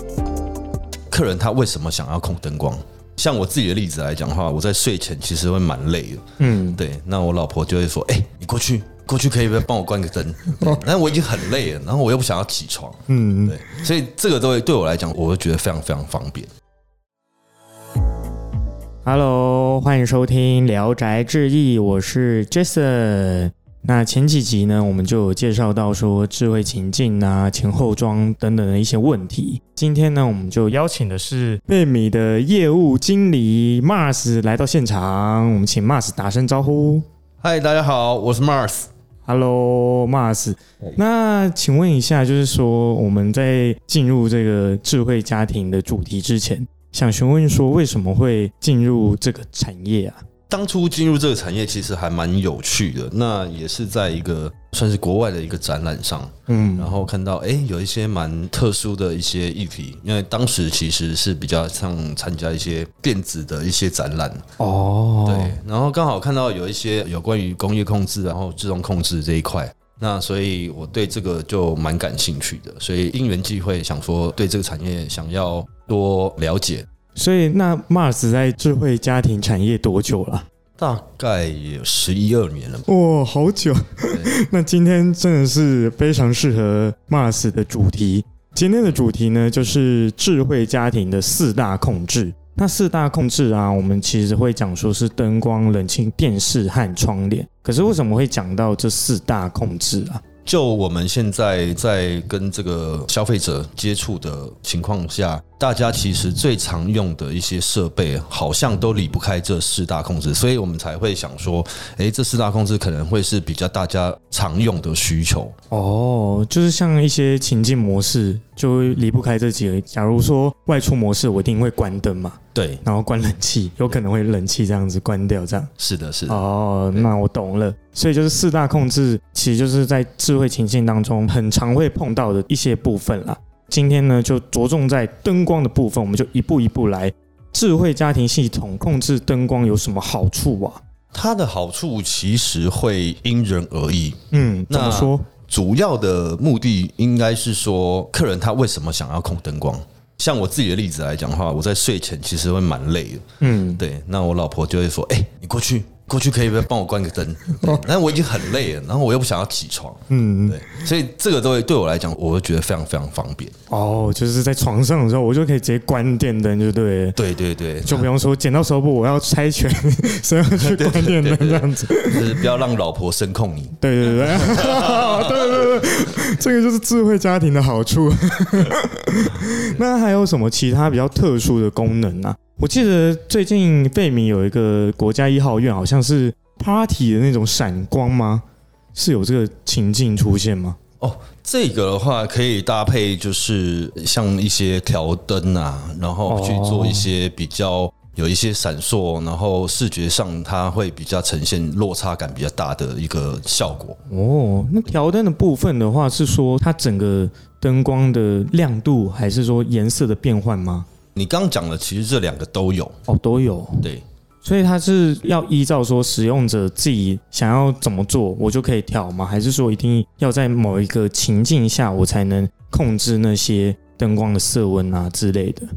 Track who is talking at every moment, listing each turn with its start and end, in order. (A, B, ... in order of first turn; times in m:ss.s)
0:01.1-0:16.5 A
0:06.4-0:06.8 B
0:13.1-0:13.8 B
0:19.0-0:37.0 B
0:37.4-0:38.9 A
0:39.2-0:50.2 B
0:50.5-1:04.4 A
0:56.5-0:56.9 B
1:04.6-1:05.6 B
1:05.2-1:16.8 A
1:17.2-1:20.4 B
1:20.8-1:22.9 A
1:22.9-1:40.2 B
1:40.4-1:55.5 A
1:55.7-2:05.7 B
2:02.5-2:02.8 A
2:05.8-2:07.1 A
2:06.3-2:20.8 B
2:21.1-2:33.2 A
2:24.3-2:25.3 B
2:33.4-2:33.8 B
2:33.8-2:43.5 A
2:40.1-2:40.9 B
2:43.7-2:47.2 B
2:47.2-2:48.1 A
2:47.8-2:52.5 B
2:50.5-2:55.6 A
2:53.8-3:10.8 B
2:59.5-2:59.8 A
3:11.0-3:24.0 A
3:16.3-3:17.1 B
3:24.1-3:30.9 B
3:31.1-3:33.0 A
3:33.1-3:33.9 B
3:34.4-3:45.7 B